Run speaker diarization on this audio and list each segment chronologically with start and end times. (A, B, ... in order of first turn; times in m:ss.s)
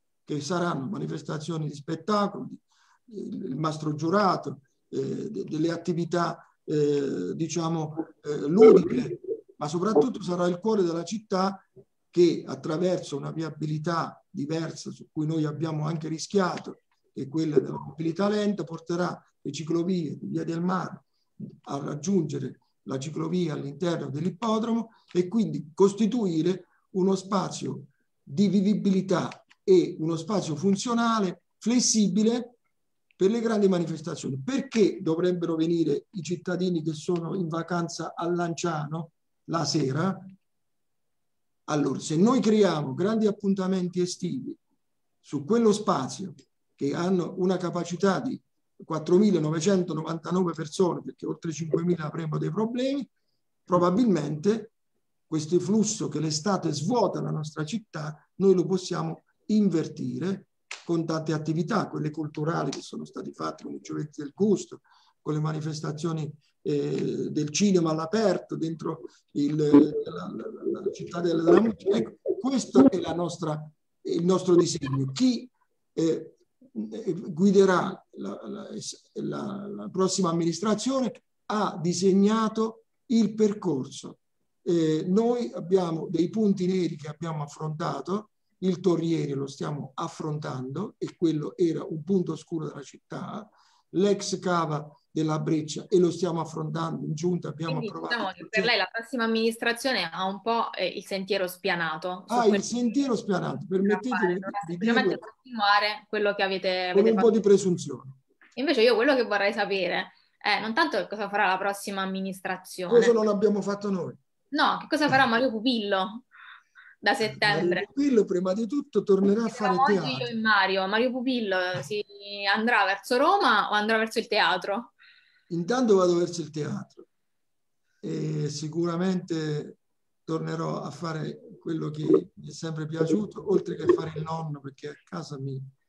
0:00.3-0:32.6 A
0:33.2-0:40.3 A
0:41.7-0:44.6 A
0:45.2-0:53.1 A
0:53.7-0:54.7 A
0:55.3-1:38.7 A
1:37.7-1:43.0 B
1:42.3-1:45.2 A
1:43.8-1:47.3 B
1:46.9-1:48.2 A
1:48.6-1:53.2 B
1:52.9-1:54.2 A
1:54.5-1:56.2 B
1:57.0-1:57.8 B
1:57.3-2:00.3 A
1:59.4-2:04.9 B
2:05.5-2:07.1 A
2:08.0-2:15.7 A